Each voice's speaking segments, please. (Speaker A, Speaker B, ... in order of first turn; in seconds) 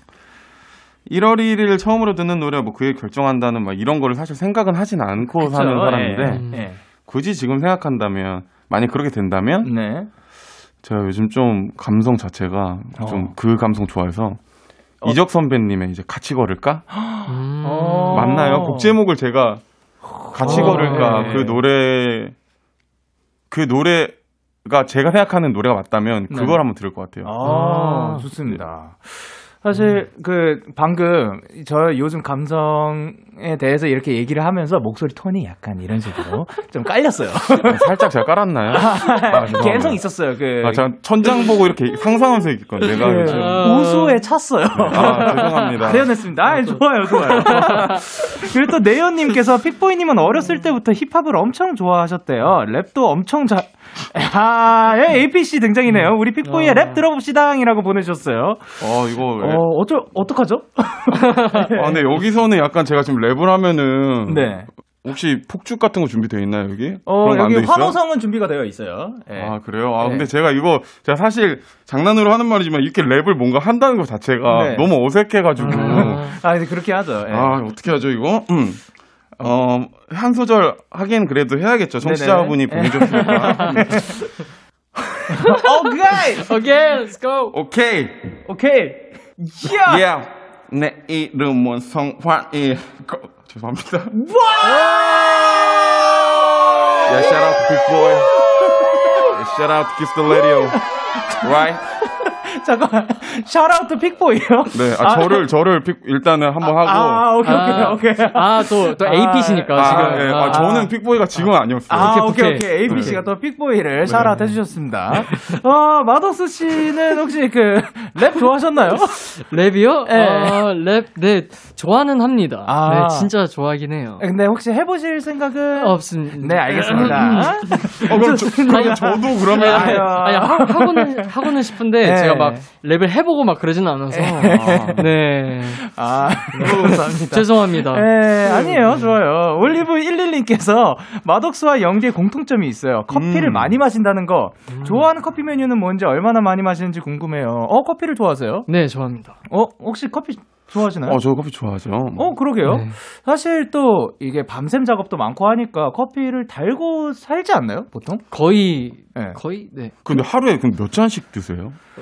Speaker A: 1.1-6.4, 7.0-9.7, 10.8-14.4, 15.0-16.9, 18.1-19.6, 20.2-22.3, 23.5-27.4, 37.6-40.0, 40.6-43.7, 44.8-46.1, 58.8-59.7, 61.6-68.0, 69.3-76.3, 77.3-78.8, 79.4-83.9, 87.5-88.4, 89.8-94.2, 97.0-98.3, 99.1-100.8, 101.4-101.8, 104.7-107.3, 109.8-113.2, 114.0-114.3, 126.9-130.3, 134.4-135.1, 136.6-137.1, 143.1-143.8, 151.1-152.3, 160.0-161.8
Speaker B: 5.4-6.8, 9.6-10.1, 12.9-13.3, 16.9-18.9, 20.2-21.6, 26.3-26.6, 27.2-38.0, 38.7-40.9, 42.8-58.8, 59.4-62.1, 64.2-64.7, 67.0-70.3, 74.5-74.9, 75.6-77.6, 82.0-84.2, 85.4-86.5, 88.4-90.1, 94.1-97.7, 98.9-99.2, 100.3-105.5, 106.6-110.9, 111.9-119.4, 120.0-120.6, 122.6-123.3, 124.2-131.5, 132.0-132.7, 134.1-135.1, 135.8-148.7, 149.5-151.2, 152.2-158.2
Speaker C: 6.2-6.7, 17.2-18.6, 20.4-21.4, 27.4-28.2, 43.2-44.2, 44.9-45.8, 46.4-48.1, 55.9-57.0, 75.6-76.4, 86.4-87.5, 107.4-110.7, 111.4-113.2, 114.1-114.6, 119.5-124.2, 125.8-128.1, 128.7-135.9, 136.6-139.1, 144.7-145.1, 148.7-149.4, 152.6-152.9, 158.3-159.9